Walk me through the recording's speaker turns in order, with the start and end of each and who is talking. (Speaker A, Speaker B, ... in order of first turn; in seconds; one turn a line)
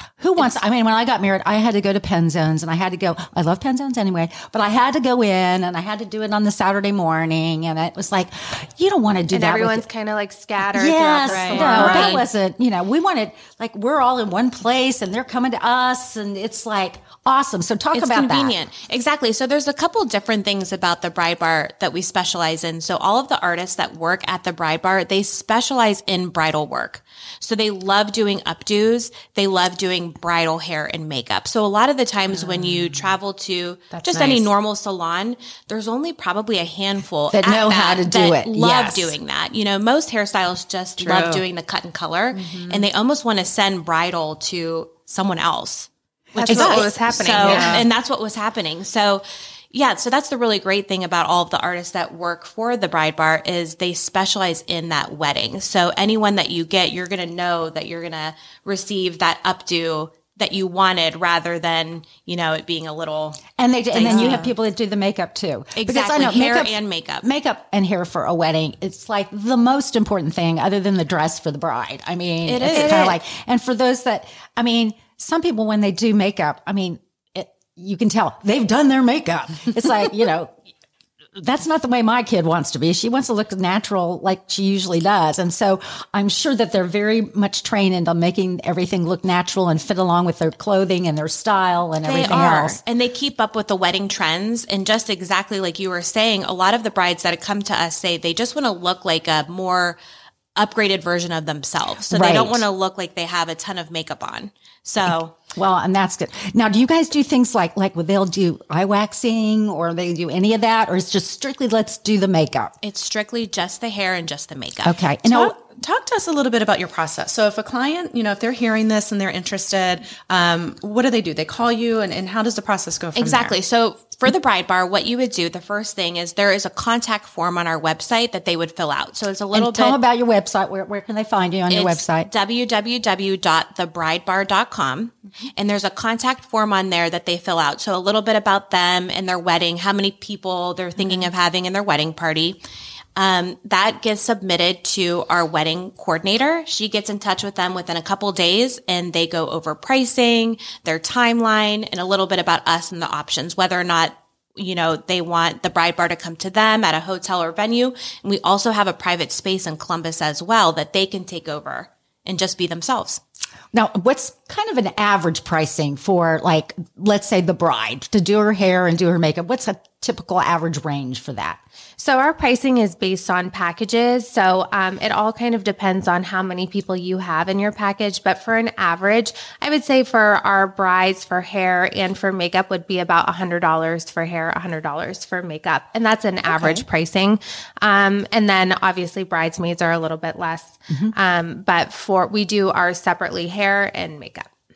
Speaker A: 0.2-9.8
Speaker B: 9.3-12.2
Speaker A: 10.7-18.6
Speaker C: 11.2-12.2
Speaker D: 11.6-12.3
Speaker D: 17.9-63.4
Speaker C: 32.3-33.0
Speaker C: 33.9-34.5
Speaker A: 37.3-39.2
Speaker C: 41.0-41.4
Speaker C: 42.3-42.9
Speaker A: 46.3-46.8
Speaker B: 46.4-47.8
Speaker C: 47.4-47.9
Speaker A: 63.6-80.5
Speaker D: 63.9-64.5
Speaker D: 65.7-67.2
Speaker D: 72.4-73.2
Speaker B: 72.7-73.1
Speaker A: 81.4-92.8
Speaker D: 92.0-100.0
Speaker D: 100.5-105.3
Speaker A: 102.1-102.7
Speaker A: 105.5-112.7
Speaker D: 112.8-115.0
Speaker A: 114.8-115.6
Speaker C: 115.2-123.5
Speaker D: 123.2-130.0
Speaker A: 129.5-132.3
Speaker D: 131.7-142.6
Speaker D: 143.2-163.2
Speaker A: 163.7-171.6
Speaker B: 172.0-194.5
Speaker A: 186.4-186.8
Speaker A: 190.9-191.1